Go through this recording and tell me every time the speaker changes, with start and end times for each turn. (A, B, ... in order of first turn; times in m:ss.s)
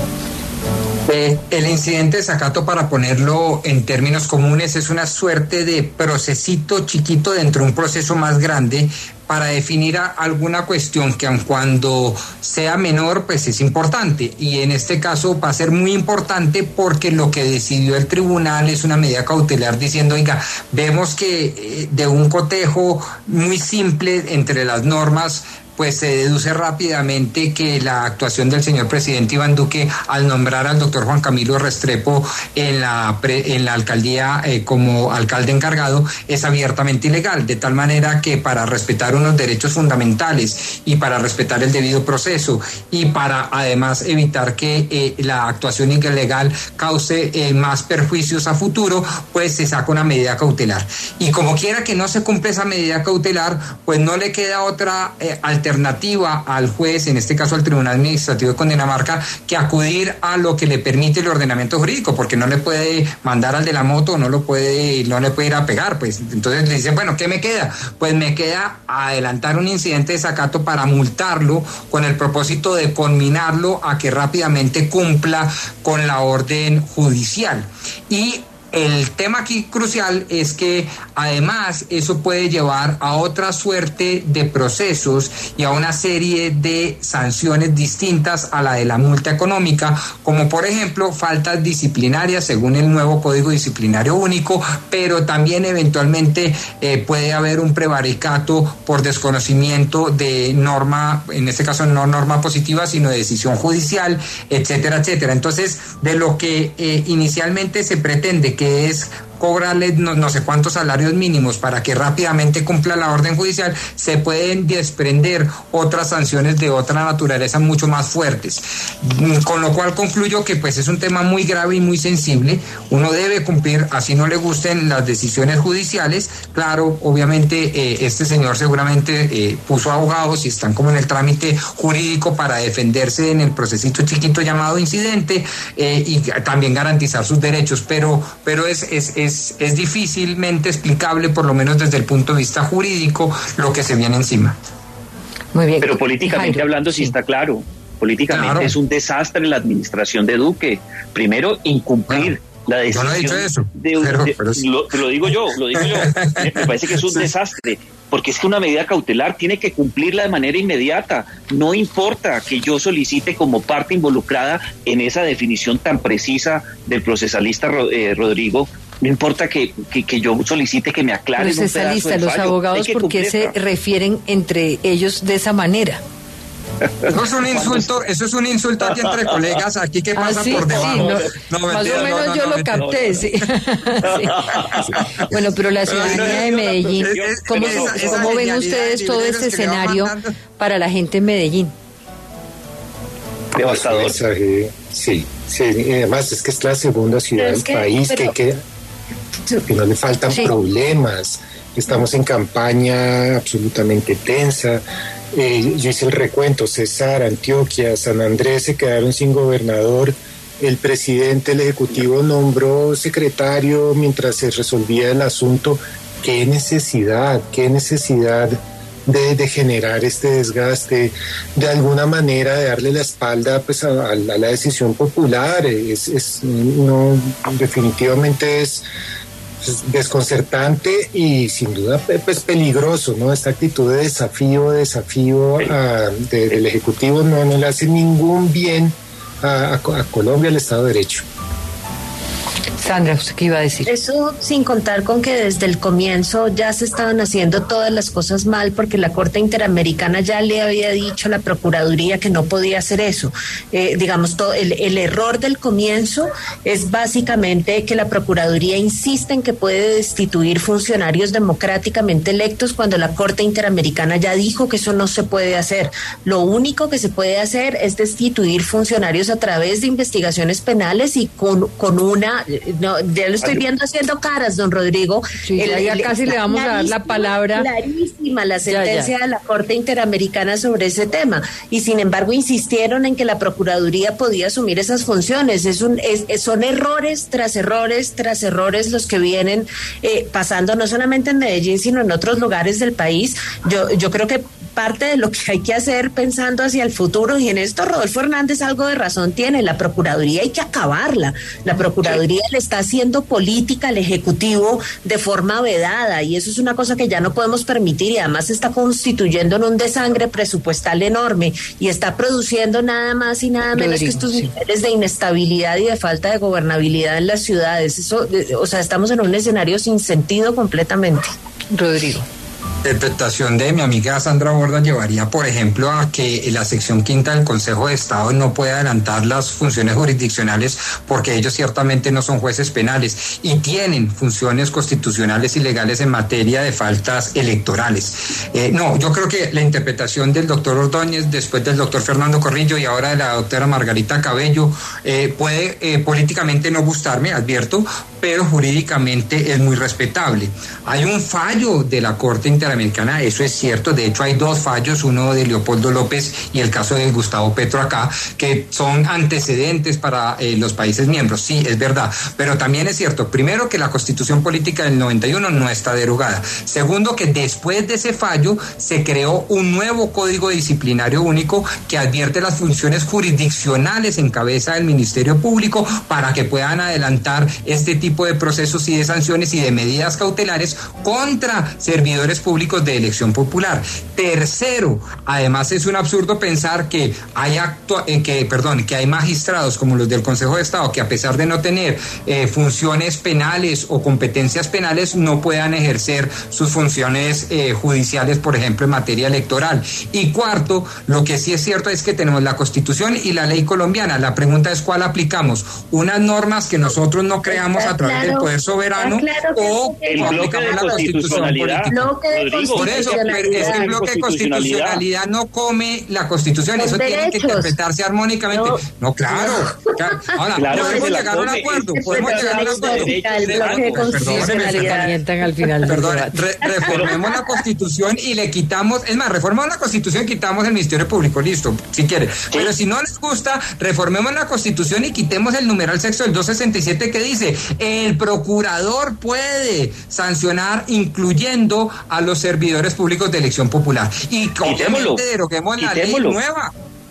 0:01.0-2:24.6 A
2:25.5-2:27.1 B
2:25.8-2:53.5 C
2:28.3-2:28.7 A
2:32.9-2:34.6 A
2:35.8-2:37.3 A
2:51.4-2:56.0 B
2:57.0-2:57.9 C
2:57.0-3:02.9 A
2:58.9-2:59.4 C
3:00.2-3:11.7 B
3:00.5-3:03.2 C
3:04.0-3:05.3 C
3:05.8-3:10.3 A
3:05.9-3:08.4 C
3:13.5-3:14.2 C
3:13.6-3:18.6 D
3:17.4-3:18.3 E
3:19.7-3:48.8 D
3:49.6-4:01.2 D
4:02.8-4:03.9 B
4:03.9-5:21.3 E
4:35.4-4:37.7 B
4:38.6-4:39.1 B
5:13.7-5:14.5 B
5:21.7-5:22.3 B
5:22.8-6:52.1 A
6:47.5-6:54.0 E
6:50.1-6:55.0 C
6:52.7-7:05.1 A
6:56.8-6:57.7 E
6:58.5-7:05.1 E
7:00.6-7:04.3 C
7:04.2-7:06.4 B
7:05.8-7:26.7 A
7:06.8-7:07.6 E
7:24.6-7:25.2 C
7:25.8-7:26.4 C